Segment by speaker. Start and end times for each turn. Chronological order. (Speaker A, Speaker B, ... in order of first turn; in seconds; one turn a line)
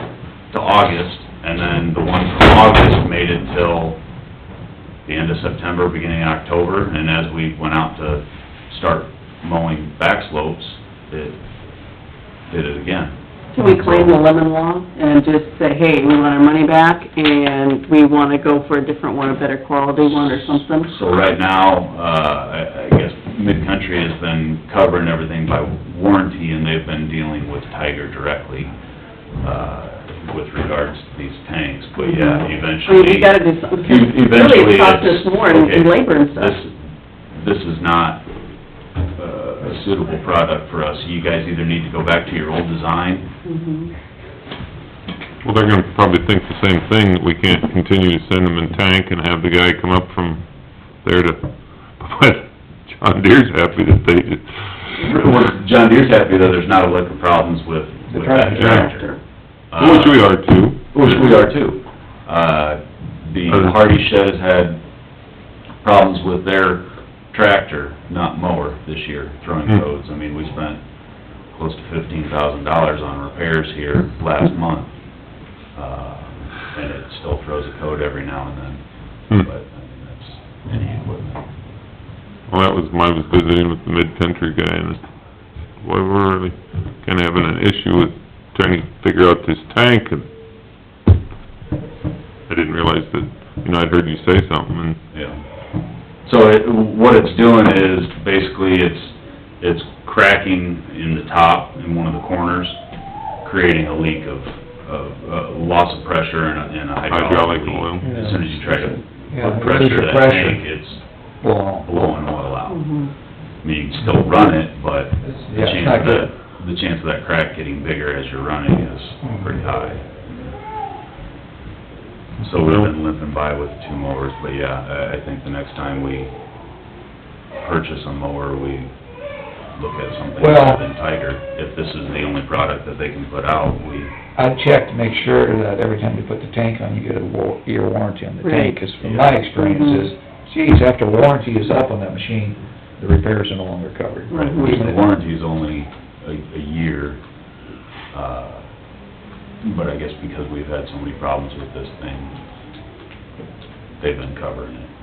Speaker A: 0.5-4.0
Speaker A: 5.0-11.4
Speaker A: 12.5-14.1
Speaker B: 13.5-20.9
Speaker A: 20.8-28.7
Speaker A: 29.4-36.7
Speaker B: 32.0-36.6
Speaker A: 37.3-38.2
Speaker A: 39.1-43.3
Speaker B: 43.4-43.9
Speaker C: 45.4-55.0
Speaker A: 55.0-59.1
Speaker D: 58.1-58.9
Speaker C: 58.5-58.9
Speaker A: 59.7-60.4
Speaker C: 59.7-61.2
Speaker A: 60.9-64.8
Speaker C: 63.5-63.8
Speaker A: 65.8-70.9
Speaker A: 71.4-75.1
Speaker A: 75.7-81.4
Speaker C: 82.5-85.1
Speaker C: 85.7-90.3
Speaker C: 92.5-95.0
Speaker A: 95.1-95.4
Speaker A: 96.2-102.8
Speaker A: 103.4-111.0
Speaker C: 107.1-108.6
Speaker D: 109.3-110.7
Speaker D: 111.4-111.9
Speaker A: 111.8-113.0
Speaker B: 112.7-113.1
Speaker A: 113.6-120.5
Speaker D: 115.2-116.3
Speaker A: 122.4-126.3
Speaker C: 122.6-122.9
Speaker A: 127.6-128.9
Speaker A: 129.7-134.1
Speaker D: 130.4-130.9
Speaker D: 134.3-145.1
Speaker B: 138.4-138.8
Speaker A: 139.0-139.4
Speaker B: 139.6-140.1
Speaker B: 144.3-144.8
Speaker A: 144.3-147.2
Speaker A: 148.1-148.7
Speaker A: 149.6-152.4
Speaker A: 154.0-154.9